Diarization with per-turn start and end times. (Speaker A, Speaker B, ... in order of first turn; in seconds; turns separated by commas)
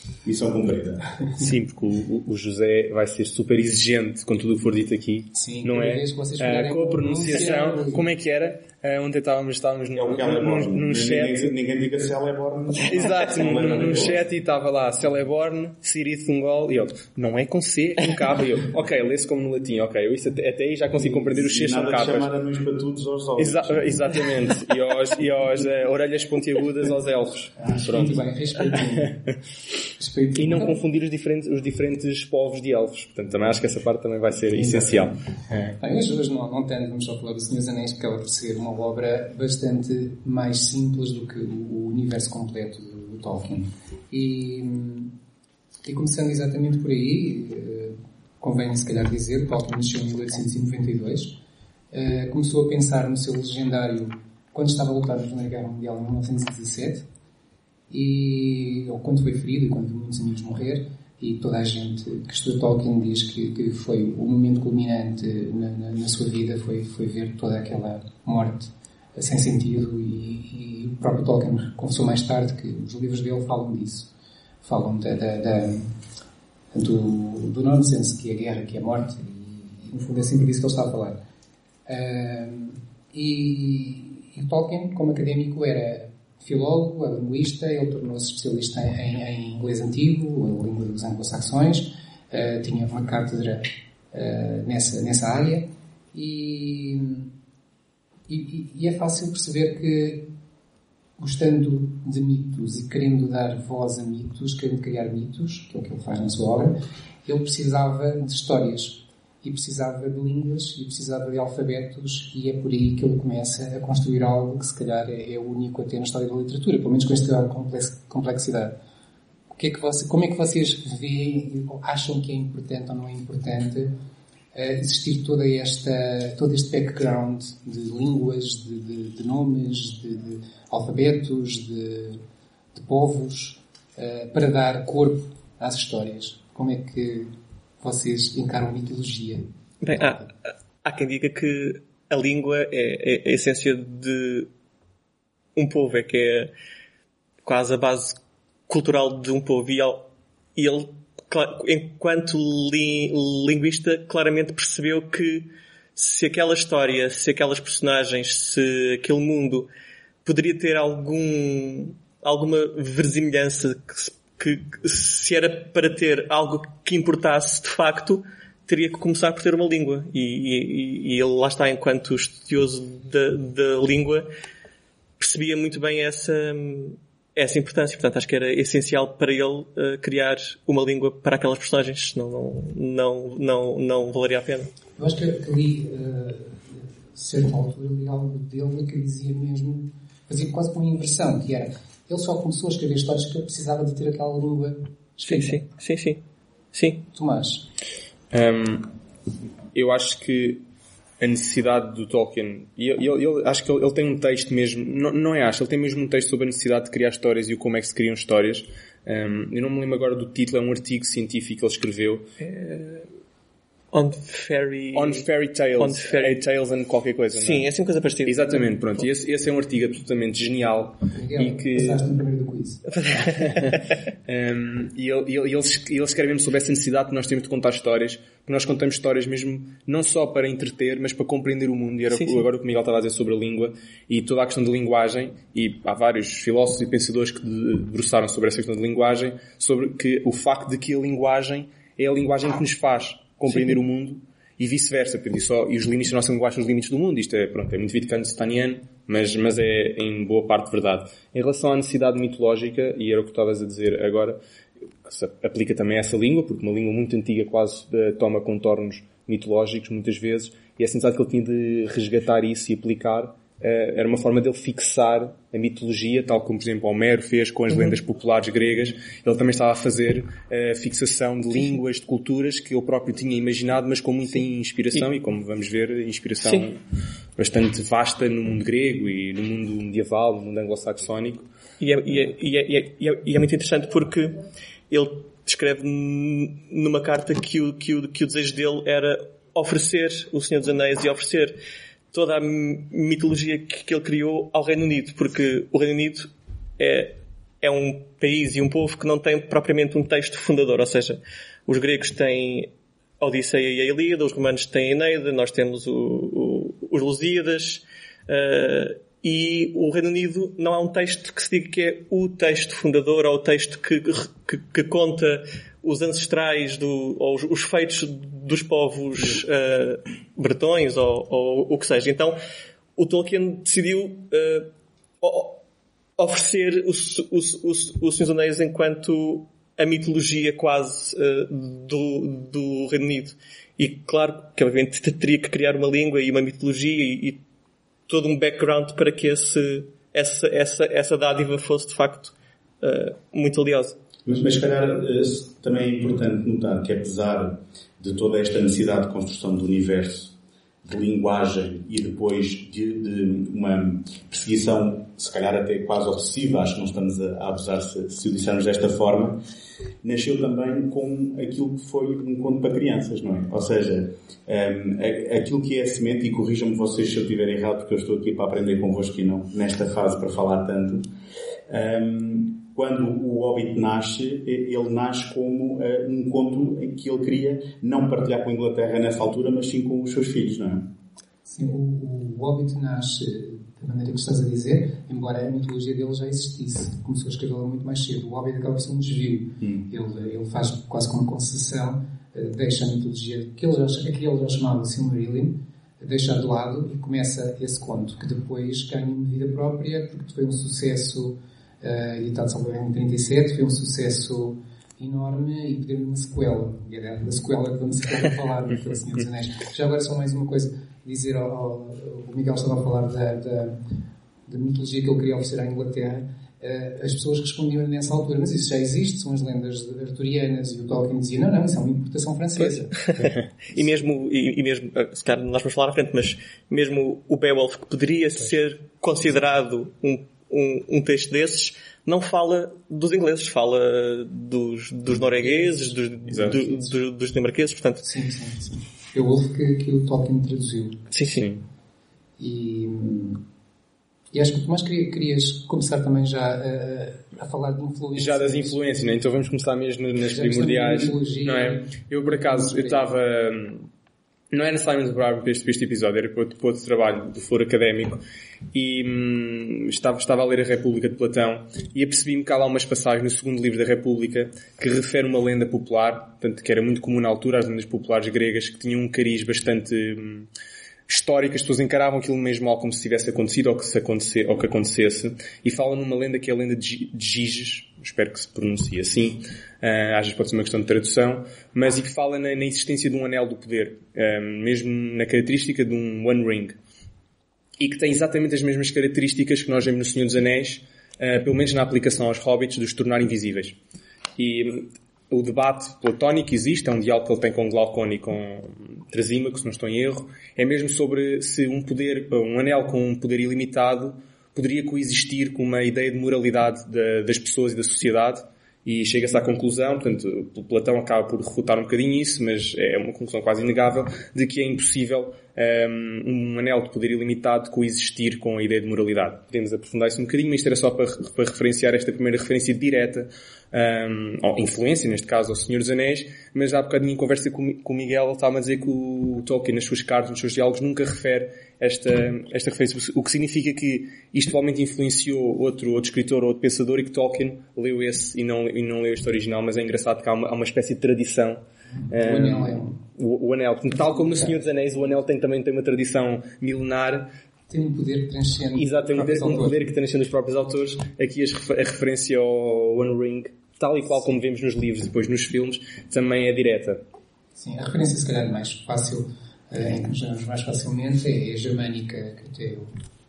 Speaker A: 0.2-1.1, Speaker B: 1.4-11.5, Speaker C: 5.3-8.1, Speaker A: 10.0-14.2, Speaker B: 12.8-22.3, Speaker A: 21.1-24.1, Speaker B: 23.4-28.2, Speaker C: 27.6-29.3, Speaker C: 30.0-30.8, Speaker B: 30.4-35.8, Speaker C: 34.5-35.1, Speaker C: 35.8-45.1, Speaker C: 45.9-51.4, Speaker C: 51.9-57.1, Speaker C: 57.9-74.1, Speaker C: 74.6-75.9, Speaker C: 76.7-81.2, Speaker C: 81.9-97.3, Speaker C: 98.3-100.3, Speaker C: 101.2-118.8, Speaker C: 119.5-123.9, Speaker C: 124.5-132.2, Speaker C: 132.7-139.5, Speaker D: 139.8-140.3, Speaker D: 140.8-144.5, Speaker D: 145.6-146.5, Speaker D: 147.4-159.7, Speaker D: 160.2-174.3, Speaker D: 175.2-184.7, Speaker C: 185.0-195.6, Speaker D: 195.3-197.0, Speaker C: 197.1-197.7, Speaker B: 198.3-198.9, Speaker B: 199.7-200.6, Speaker B: 201.2-212.3, Speaker D: 212.4-213.1, Speaker D: 213.9-215.3, Speaker B: 214.9-217.7, Speaker D: 215.8-216.4, Speaker D: 217.3-219.1, Speaker B: 218.3-222.1, Speaker C: 221.1-222.9, Speaker D: 222.9-223.7, Speaker B: 224.3-254.4, Speaker D: 232.1-232.4, Speaker B: 255.0-276.8, Speaker D: 276.4-276.7, Speaker B: 277.4-281.5, Speaker D: 281.8-291.6, Speaker D: 292.1-322.4, Speaker D: 323.0-325.6, Speaker D: 326.2-337.4, Speaker D: 338.1-344.0, Speaker A: 344.3-350.3, Speaker A: 350.9-359.4, Speaker A: 360.0-371.1, Speaker A: 371.7-380.9, Speaker C: 381.5-413.8, Speaker C: 414.5-423.0, Speaker D: 422.6-438.1, Speaker B: 436.3-436.6, Speaker C: 436.3-436.8, Speaker C: 438.0-441.0, Speaker D: 441.1-441.5, Speaker B: 441.3-441.7, Speaker C: 442.4-443.4, Speaker C: 444.3-448.8, Speaker B: 448.2-453.9, Speaker C: 450.3-453.1, Speaker B: 454.5-470.5, Speaker B: 471.1-486.7, Speaker B: 487.8-493.8, Speaker B: 494.4-547.3, Speaker C: 542.0-543.0, Speaker C: 543.9-544.7, Speaker C: 547.7-549.9, Speaker B: 548.8-557.0, Speaker C: 557.6-562.9